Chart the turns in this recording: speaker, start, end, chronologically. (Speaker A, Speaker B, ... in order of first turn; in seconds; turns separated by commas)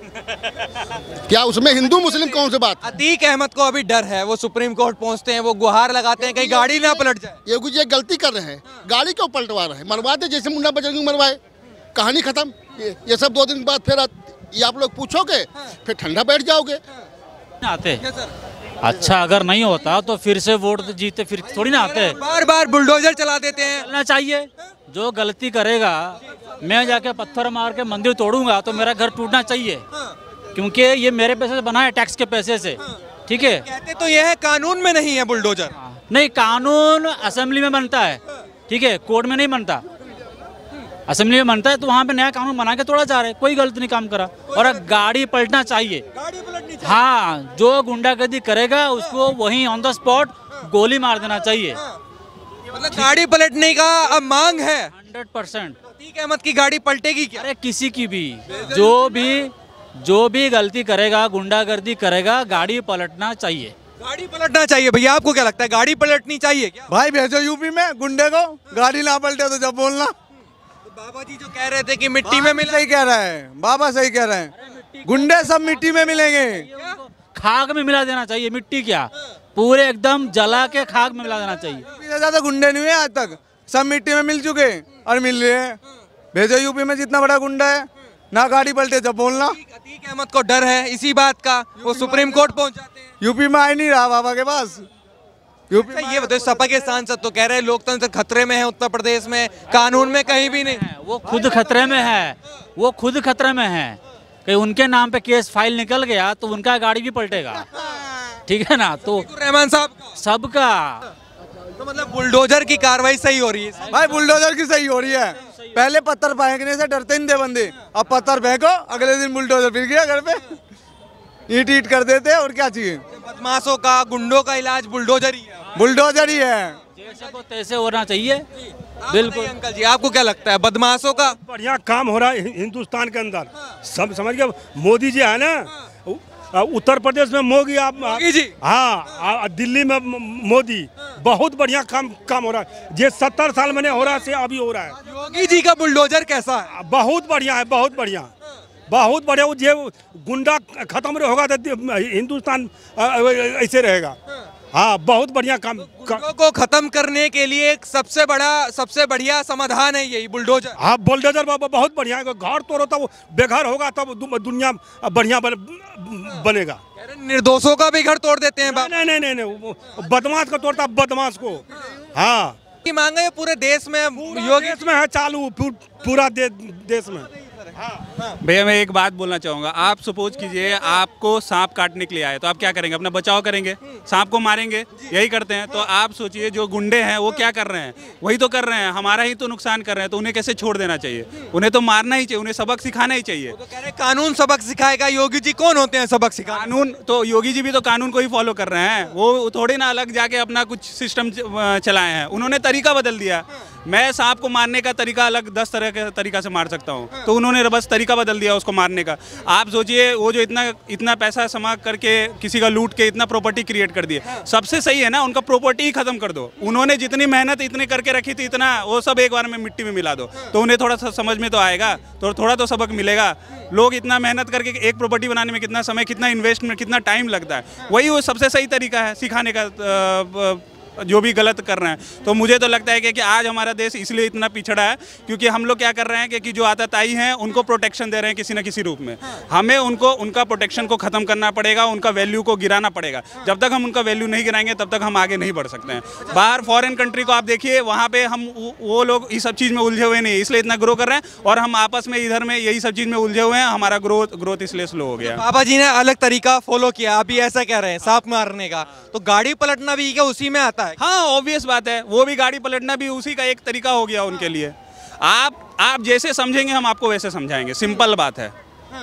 Speaker A: 1.3-2.8, Speaker B: 1.9-7.4, Speaker A: 6.2-11.4, Speaker A: 11.9-16.8, Speaker C: 17.6-18.0, Speaker B: 18.0-18.3, Speaker C: 18.8-22.2, Speaker B: 21.4-23.9, Speaker C: 23.7-29.8, Speaker C: 30.6-33.6, Speaker B: 33.6-35.8, Speaker C: 35.8-39.8, Speaker C: 41.1-46.0, Speaker B: 44.5-44.9, Speaker B: 46.1-47.0, Speaker C: 46.8-51.8, Speaker B: 52.7-54.9, Speaker C: 54.9-55.8, Speaker B: 55.9-57.5, Speaker C: 57.4-63.7, Speaker B: 58.5-59.1, Speaker B: 64.0-66.9, Speaker D: 66.9-70.1, Speaker B: 70.9-72.8, Speaker D: 72.2-74.5, Speaker C: 74.6-81.8, Speaker D: 75.0-76.7, Speaker D: 81.9-85.8, Speaker D: 86.3-89.6, Speaker B: 89.5-93.1, Speaker D: 91.8-92.5, Speaker D: 93.2-94.9, Speaker D: 95.7-96.8, Speaker B: 95.9-101.9, Speaker C: 99.7-107.7, Speaker B: 107.8-108.0, Speaker C: 108.5-109.3, Speaker B: 109.1-110.1, Speaker C: 110.2-111.1, Speaker B: 111.8-114.0, Speaker C: 113.8-114.4, Speaker D: 113.9-120.5, Speaker C: 115.5-115.8, Speaker D: 121.5-123.0, Speaker B: 123.1-125.7, Speaker D: 125.8-126.8, Speaker C: 127.0-128.5, Speaker B: 129.0-131.4, Speaker C: 129.1-129.5, Speaker E: 131.4-145.0, Speaker B: 138.0-138.6, Speaker B: 145.1-146.7, Speaker E: 146.7-148.3, Speaker E: 148.9-154.2, Speaker E: 154.7-156.2, Speaker B: 155.8-160.8, Speaker E: 160.8-166.8, Speaker B: 167.0-168.9, Speaker E: 168.6-172.6, Speaker B: 172.8-174.8, Speaker E: 174.2-178.0, Speaker F: 178.4-193.6, Speaker B: 193.5-196.7, Speaker F: 196.5-255.4, Speaker B: 255.2-261.0, Speaker F: 261.0-268.5